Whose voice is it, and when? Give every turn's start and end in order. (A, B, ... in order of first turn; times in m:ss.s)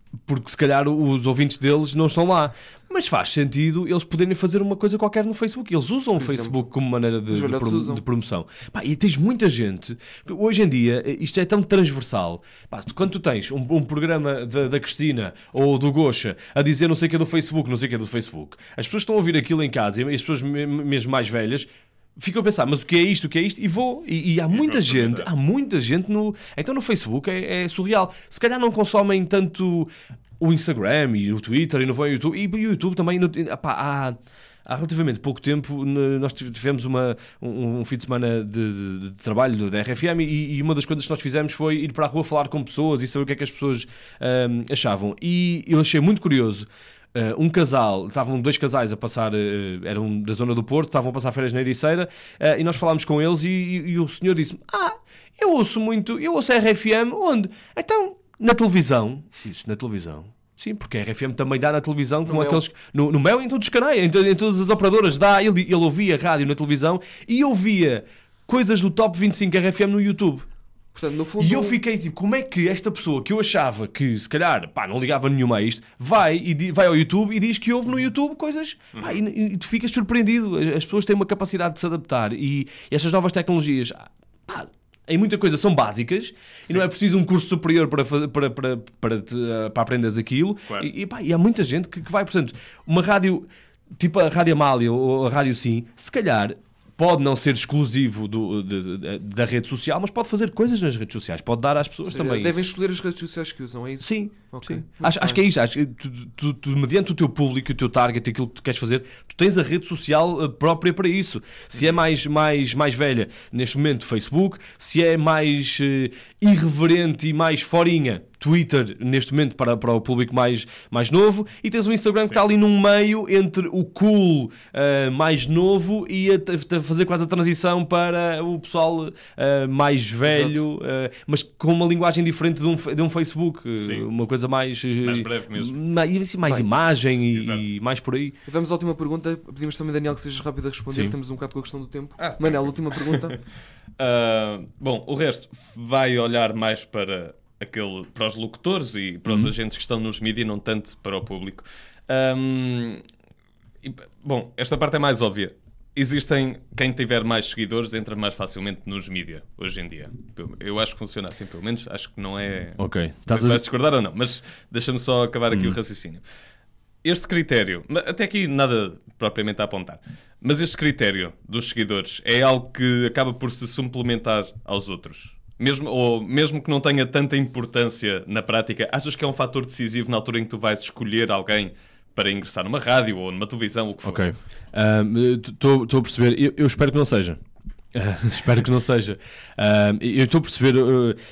0:00.3-1:10.4 A
0:06.2-0:06.7 B
0:07.3-0:08.0 B
0:24.5-0:25.3 C
1:02.2-1:02.6 B
1:10.9-1:11.8 B
1:11.4-1:33.5 A
1:18.9-1:19.2 C
1:34.0-1:42.7 A
1:42.0-1:45.4 B
1:44.0-2:18.4 A
2:10.2-2:10.6 B
2:13.8-2:14.1 C
2:15.0-2:15.8 C
2:17.3-2:17.7 C
2:18.5-2:23.4 B
2:22.2-2:23.3 C
2:24.0-2:33.0 C
2:33.8-2:46.2 C
2:42.8-2:43.6 A
2:45.5-2:45.8 A
2:47.0-3:04.3 C
3:04.0-3:07.4 A
3:07.9-3:11.2 A